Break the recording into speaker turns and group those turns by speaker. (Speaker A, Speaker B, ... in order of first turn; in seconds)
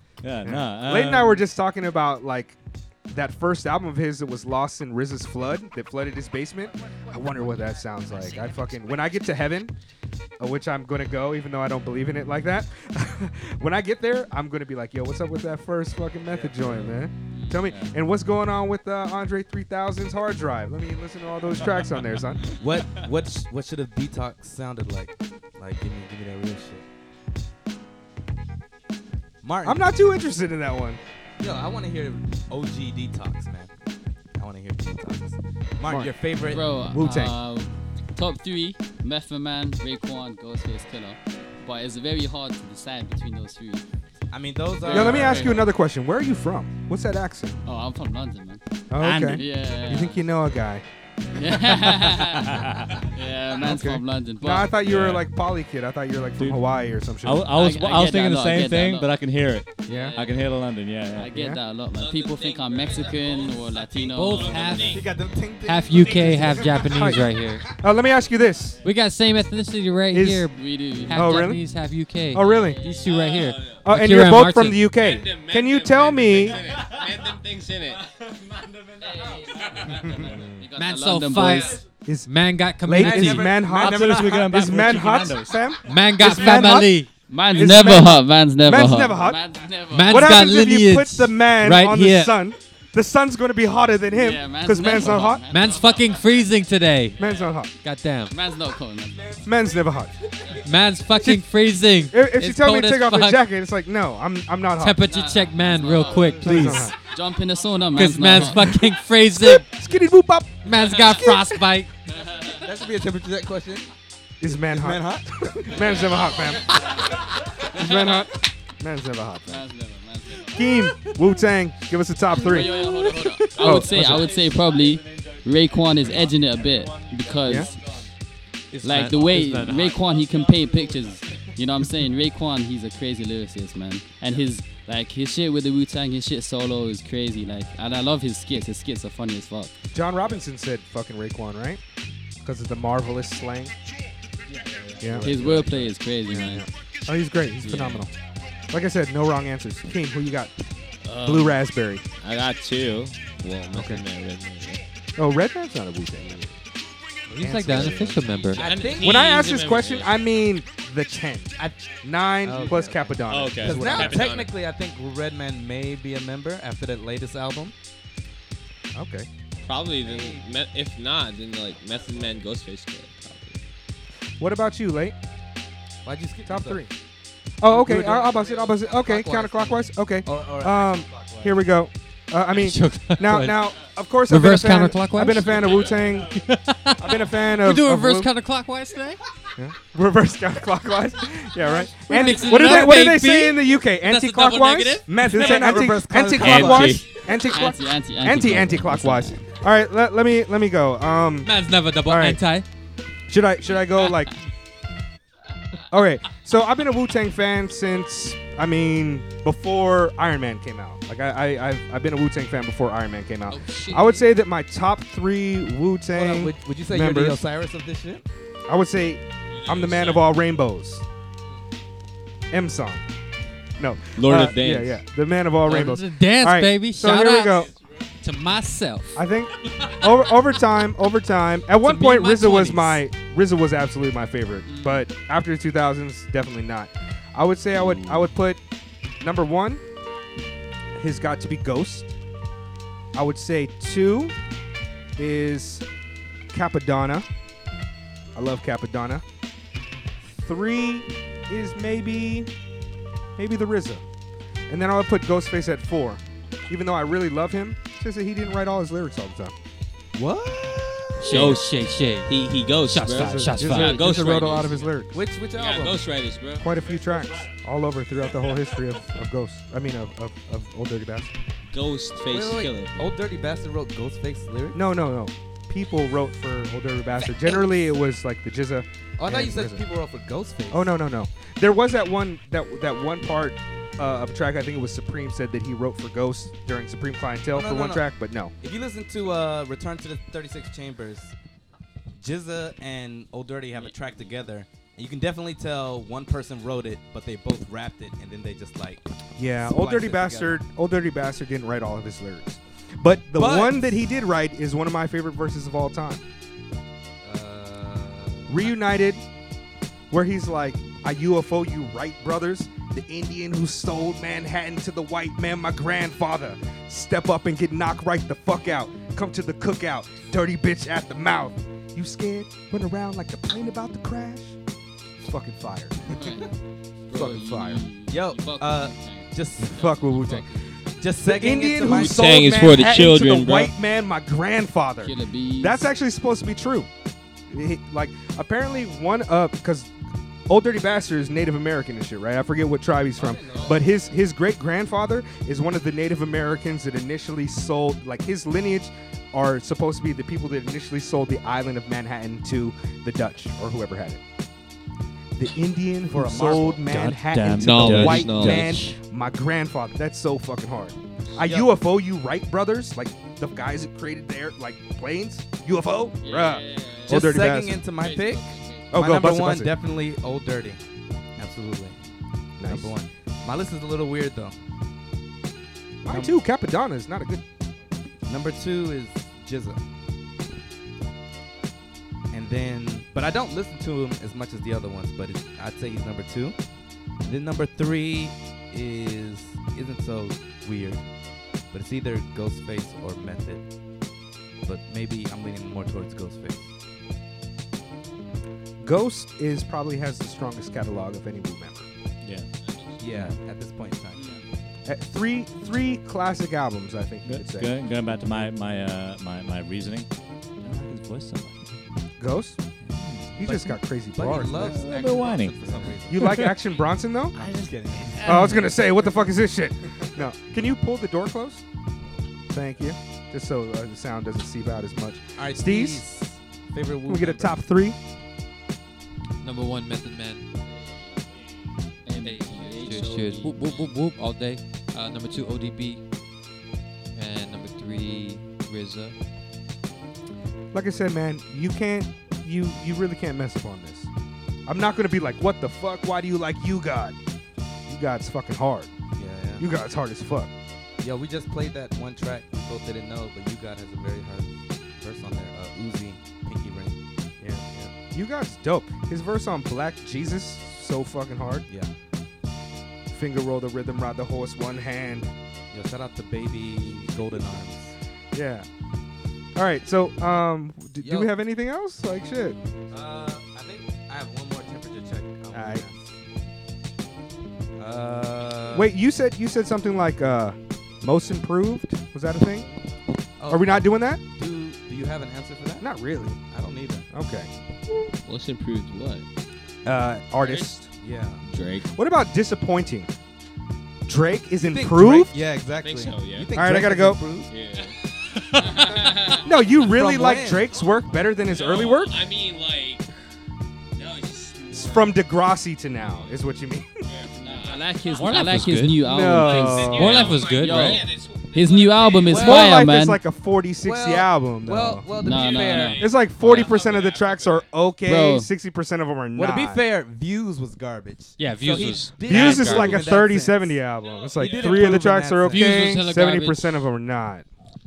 Speaker A: 0.2-1.4, 17.5-17.9, 49.0-49.4, 51.9-53.1, 54.7-55.3, 56.4-61.3, 76.8-77.1, 78.4-79.0, 83.7-85.7, 123.5-128.1, 129.5-131.0, 356.2-358.9, 402.2-402.5, 407.2-411.6, 412.8-413.7, 414.5-416.6, 417.4-418.7
Speaker B: 0.4-2.6, 3.1-9.7, 10.4-22.5, 29.6-31.0, 35.9-36.2, 36.9-37.4, 44.9-47.6, 48.9-50.8, 53.6-57.6, 59.9-60.1, 61.3-61.6, 66.7-68.8, 70.1-70.5, 71.1-71.6, 72.3-72.8, 73.8-76.6, 80.0-80.5, 82.0-82.3, 82.8-89.4, 90.1-95.5, 97.2-97.7, 99.4-100.1, 101.2-101.4, 102.1-105.0, 106.4-107.0, 108.3-111.7, 114.4-116.7, 117.7-119.6, 120.5-122.9, 123.5-124.2, 127.5-127.7, 139.9-141.8, 142.4-143.7, 145.0-148.1, 148.7-150.5, 151.2-152.1, 153.7-154.0, 155.2-156.4, 157.4-158.3, 159.0-164.3, 168.9-169.3, 174.4-175.2, 176.5-176.9, 177.6-188.3, 189.6-201.5, 202.1-202.4, 203.3-204.3, 205.9-217.4, 218.7-221.1, 222.5-223.0, 223.8-227.7, 229.2-238.6, 239.2-239.8, 240.9-242.2, 243.1-244.4, 245.2-245.8, 246.5-247.3, 248.3-249.2, 250.3-252.5, 253.4-254.0, 254.7-259.5, 263.1-265.2, 266.6-271.3, 274.7-279.8, 280.7-288.5, 299.4-306.2, 308.5-309.2, 310.1-324.6, 325.2-326.3, 327.1-327.8, 329.6-330.5, 331.2-336.9, 337.5-339.9, 340.5-354.2, 355.4-367.9, 368.9-369.7, 372.6-372.9, 376.0-377.4, 398.8-401.9, 404.9-407.7, 412.2-412.6, 413.4-414.8, 416.1-417.4, 418.2-421.6, 422.5-426.0, 427.1-428.0, 440.7-444.1, 444.7-447.2, 447.9-448.9, 449.6-450.5, 457.4-461.7, 463.1-465.3, 468.3-468.7, 469.6-472.6, 475.5-475.9, 478.7-482.7, 483.5-484.2, 485.8-486.4, 487.1-487.5, 489.9-490.9, 491.9-493.1, 494.1-495.3, 496.6-497.2, 499.4-502.2, 504.7-506.9, 509.0-510.4, 512.3-515.1, 516.0-519.8, 522.2-527.5
Speaker C: 16.3-16.9, 22.6-26.9, 29.4-29.9, 31.4-33.7, 34.4-36.6, 44.3-45.7, 59.9-60.1, 64.9-66.8, 83.0-84.6, 112.5-113.9, 114.5-116.0, 128.7-129.3, 158.6-159.7, 162.4-167.8, 170.0-170.5, 176.1-176.8, 177.7-181.6, 195.2-197.1, 216.1-218.2, 260.1-261.3, 265.1-266.1, 272.3-274.8, 279.2-280.9, 287.5-288.1, 288.6-291.3, 292.2-299.1, 299.6-300.6, 303.4-304.0, 307.2-308.7, 328.1-329.9, 331.0-332.2, 343.2-344.1, 356.2-356.8, 361.4-361.7, 367.1-370.8, 371.4-372.0, 372.6-374.6, 376.1-376.4, 378.3-379.8, 382.3-386.6, 387.2-391.0, 391.7-393.6, 394.6-396.7, 403.0-404.4, 414.1-416.4, 417.4-418.6, 425.4-427.6, 449.2-449.7, 451.0-457.0, 465.7-467.9, 471.0-471.3, 472.9-476.1, 477.8-478.9, 483.4-485.9, 486.5-487.1, 490.9-491.4, 494.6-497.5, 499.8-500.7, 512.3-512.7, 513.8-516.0, 519.4-523.8, 524.4-525.7
Speaker D: 17.3-17.7, 36.4-43.8, 44.8-45.7, 47.6-48.6, 49.2-50.2, 51.4-54.7, 57.5-59.1, 59.9-60.6, 61.1-65.0, 70.5-71.4, 72.5-73.0, 79.0-81.8, 87.3-90.4, 94.1-96.2, 98.3-99.5, 105.0-108.7, 112.1-112.6, 117.8-118.2, 119.5-120.8, 122.3-127.7, 128.8-139.7, 145.2-146.7, 147.6-148.1, 197.5-199.4, 234.7-235.1, 326.1-326.5, 327.1-330.8, 335.0-335.8, 366.2-369.0, 404.2-404.4, 430.7-431.3, 432.1-433.9, 507.4-513.2, 515.1-516.8, 518.0-518.5
Speaker E: 61.9-65.2, 66.0-66.4, 73.0-73.8, 74.9-78.0, 79.6-79.9, 144.5-145.0, 151.0-151.6, 152.2-154.8, 158.5-160.2, 163.3-164.5, 169.6-173.6, 196.4-197.2, 219.5-220.3, 224.2-225.0, 261.3-261.7, 262.3-264.9, 265.5-266.7, 271.7-273.1, 331.9-333.7, 357.6-358.9, 488.2-489.2, 490.4-490.7, 491.5-491.9, 495.8-496.5, 497.5-498.0, 498.6-499.4, 501.4-503.1, 504.0-505.2, 506.0-506.3, 507.1-508.3, 509.5-512.7, 515.3-517.7, 524.2-524.8
Speaker F: 64.1-65.1, 65.7-67.7, 68.8-74.8, 80.8-83.5, 85.9-87.1, 89.9-92.4, 95.5-97.2, 97.8-98.4, 100.6-103.4, 104.8-107.0, 107.9-109.7, 110.7-111.9, 128.9-130.0, 157.3-158.7, 182.5-183.6, 184.3-189.2, 191.8-195.2, 201.4-202.7, 213.5-214.2, 225.7-227.7, 228.2-229.2, 231.8-233.0, 261.2-264.3, 429.4-430.4, 432.2-436.0, 437.1-439.2, 498.4-499.4, 508.1-511.0, 521.4-523.2, 525.5-526.7